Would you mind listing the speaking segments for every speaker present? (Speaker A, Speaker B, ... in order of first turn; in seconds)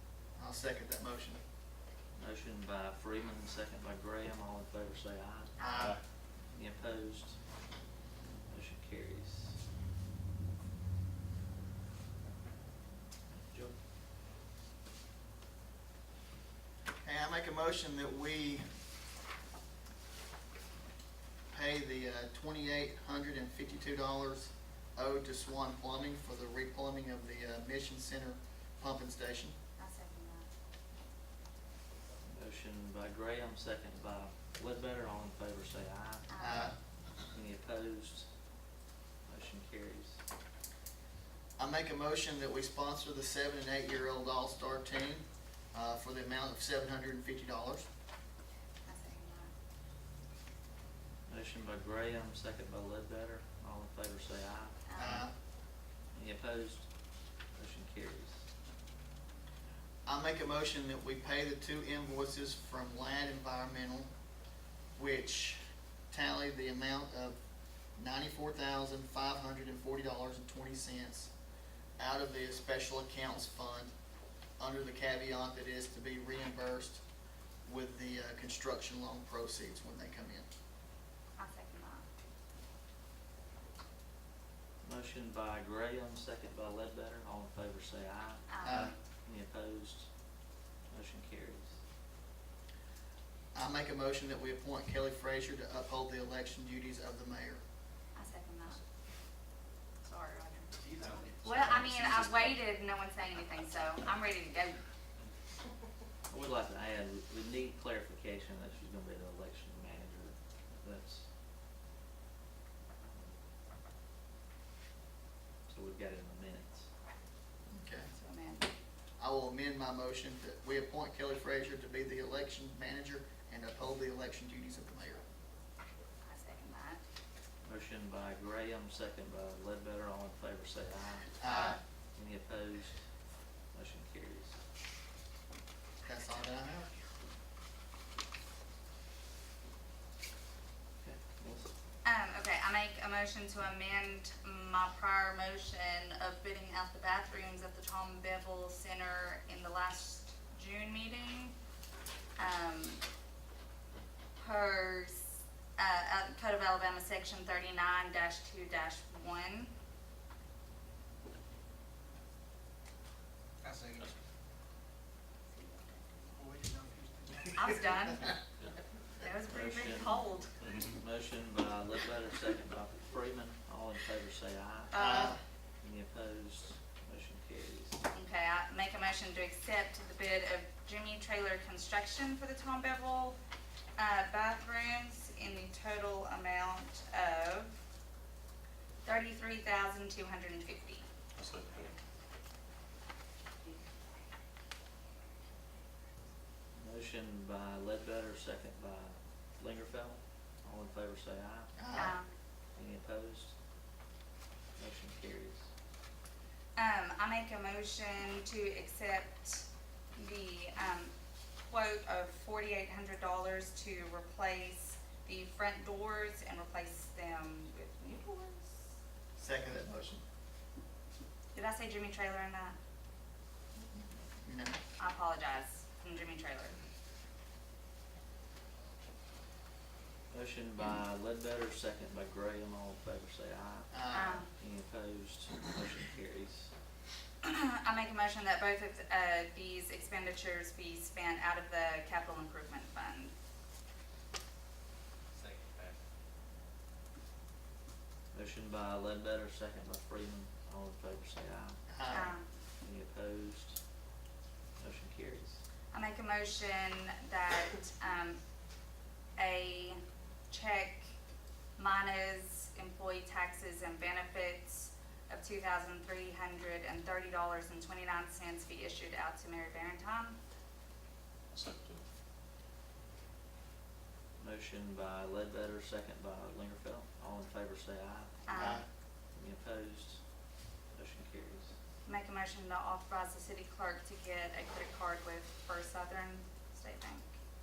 Speaker A: 0.4-1.4, 5.6-6.0, 17.0-18.6, 21.5-29.5, 36.4-36.8, 41.6-47.9, 55.0-55.3, 60.1-64.1, 65.0-65.6, 66.1-67.4, 68.0-71.3, 72.0-73.9, 74.6-77.0, 77.7-80.5, 88.6-88.9, 93.5-97.6, 117.7-118.1, 119.2-125.2, 131.4-131.8, 136.0-136.9, 175.0-175.4, 201.8-202.2, 219.4-220.2, 223.9-224.8, 233.9-234.4, 251.9-252.3, 278.5-278.8
Speaker B: 2.2-5.5, 6.5-7.4, 8.5-9.6, 32.3-36.3, 37.2-38.3, 39.3-40.2, 51.3-55.2, 56.1-56.9, 57.5-58.4, 84.8-90.1, 90.9-91.7, 106.3-111.3, 113.1-113.4, 115.7-116.9, 127.6-131.4, 132.2-133.0, 133.7-134.6, 141.0-141.7, 169.5-170.3, 170.9-175.1, 175.8-178.0, 196.8-201.9, 202.8-203.6, 204.8-205.7, 230.3-236.7, 248.3-251.8, 252.8-253.8, 254.8-255.6, 274.4-278.8, 279.3-280.2, 280.9-281.7
Speaker C: 5.6-5.9, 29.8-30.5, 36.3-36.7, 48.9-49.5, 54.9-55.2, 81.4-82.0, 88.5-88.9, 98.2-98.8, 100.0-100.7, 101.4-104.8, 118.1-118.7, 126.2-127.0, 131.4-131.8, 142.0-151.5, 152.4-153.0, 154.4-159.7, 165.5-166.4, 167.6-168.3, 169.2-170.6, 174.9-175.4, 178.1-183.4, 184.0-187.8, 189.1-191.1, 201.9-202.3, 206.8-211.1, 211.7-218.8, 221.5-222.8, 225.0-226.8, 234.1-234.5, 237.4-243.3, 252.1-252.5, 255.9-258.4, 259.4-261.1, 261.8-270.4, 278.5-278.8, 282.1-287.3
Speaker D: 100.7-101.8, 163.6-164.2, 166.3-167.7, 245.3-246.0
Speaker E: 101.4-102.5, 170.6-171.0, 191.3-191.9, 271.5-272.0